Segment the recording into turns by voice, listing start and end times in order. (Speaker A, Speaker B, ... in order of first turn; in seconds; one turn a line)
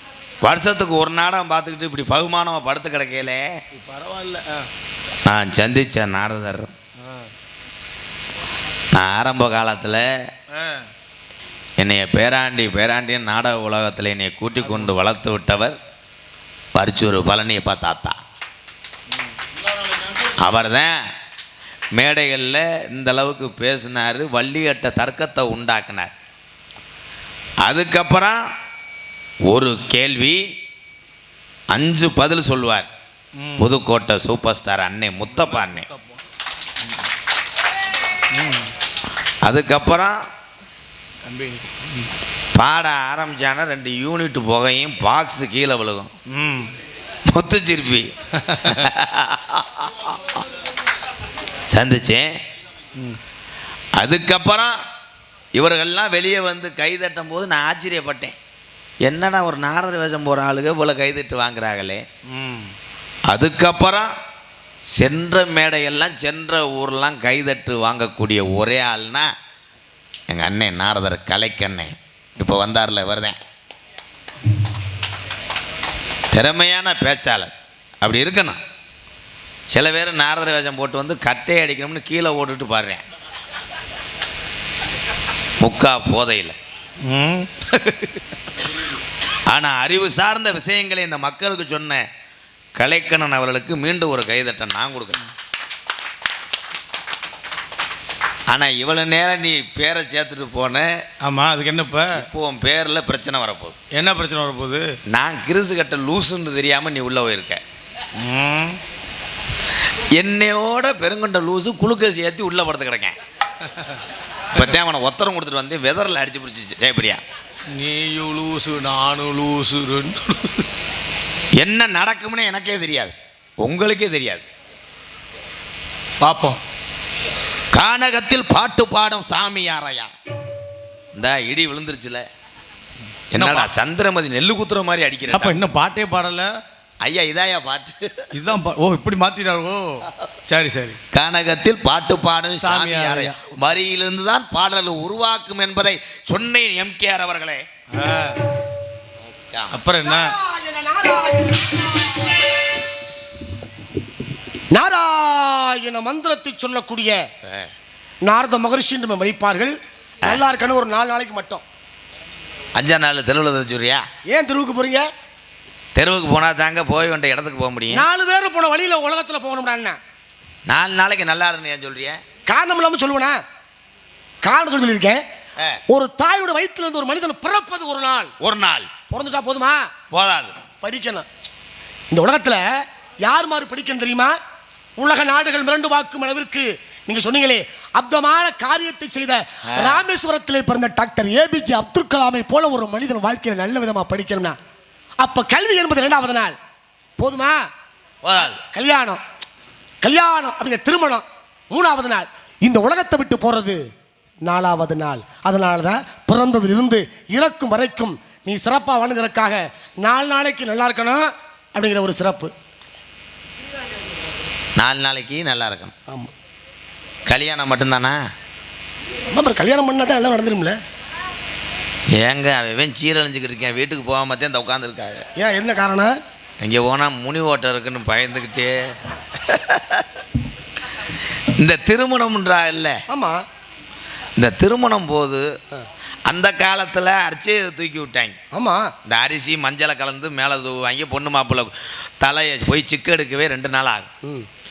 Speaker A: 0.4-3.5
Speaker B: 3.7-4.7
Speaker A: 5.2-6.7
Speaker A: 8.9-10.1
Speaker B: 10.5-10.9
Speaker A: 11.8-15.8
Speaker B: 14.6-14.9
Speaker A: 16.7-18.2
Speaker A: 20.4-20.9
Speaker A: 21.9-26.1
Speaker A: 27.6-28.4
Speaker A: 29.5-30.4
Speaker A: 31.7-32.9
Speaker B: 33.4-33.7
Speaker A: 33.6-35.9
Speaker B: 35.3-36.0
Speaker B: 38.3-38.7
Speaker A: 39.4-40.2
Speaker B: 41.2-42.1
Speaker A: 42.5-46.1
Speaker B: 46.3-46.7
Speaker A: 47.3-48.1
Speaker B: 48.4-48.9
Speaker A: 48.6-50.4
Speaker A: 51.7-52.4
Speaker A: 54.0-54.8
Speaker A: 55.5-58.3
Speaker A: 59.0-62.0
Speaker B: 62.3-62.7
Speaker A: 63.3-64.1
Speaker A: 65.0-69.3
Speaker A: 70.3-73.4
Speaker A: 76.3-77.5
Speaker A: 78.0-78.6
Speaker A: 79.7-83.0
Speaker A: 85.6-86.5
Speaker B: 87.0-88.0
Speaker A: 89.5-92.0
Speaker A: 92.8-95.2
Speaker A: 98.5-101.0
Speaker B: 101.2-102.2
Speaker A: 102.2-103.8
Speaker B: 103.9-105.0
Speaker A: 105.1-107.6
Speaker B: 108.2-108.8
Speaker A: 110.2-113.1
Speaker A: 114.5-117.2
Speaker B: 117.7-120.6
Speaker A: 121.6-124.5
Speaker B: 126.2-126.6
Speaker A: 127.7-130.1
Speaker A: 131.1-132.2
Speaker A: 133.3-135.6
Speaker B: 133.3-133.7
Speaker B: 135.3-136.5
Speaker A: 137.0-138.3
Speaker B: 138.3-141.0
Speaker A: 141.1-147.6
Speaker B: 142.6-143.4
Speaker B: 147.9-148.4
Speaker A: 149.5-149.7
Speaker B: 149.7-150.3
Speaker C: 150.0-151.8
Speaker C: 154.7-157.2
Speaker C: 158.2-161.6
Speaker A: 162.8-164.0
Speaker C: 164.3-165.1
Speaker A: 165.9-168.0
Speaker C: 167.9-170.0
Speaker A: 170.7-172.2
Speaker C: 172.5-173.4
Speaker C: 174.4-175.2
Speaker C: 175.9-178.3
Speaker A: 178.4-178.9
Speaker C: 179.1-179.9
Speaker A: 180.1-180.5
Speaker C: 180.8-181.3
Speaker C: 182.1-182.6
Speaker C: 183.2-184.4
Speaker C: 185.0-194.6
Speaker A: 189.7-190.0
Speaker C: 195.2-196.6
Speaker C: 197.2-197.7
Speaker A: 198.2-198.6
Speaker C: 198.4-199.2
Speaker C: 200.0-203.8
Speaker C: 204.4-212.5
Speaker A: 214.8-215.9
Speaker A: 217.3-218.2
Speaker C: 219.3-220.8
Speaker A: 222.2-225.2
Speaker C: 225.4-226.1
Speaker A: 226.6-230.1
Speaker A: 231.6-233.0
Speaker C: 233.1-233.4
Speaker A: 234.4-235.4
Speaker A: 236.3-238.3
Speaker C: 238.5-238.9
Speaker A: 239.1-241.7
Speaker A: 242.2-244.1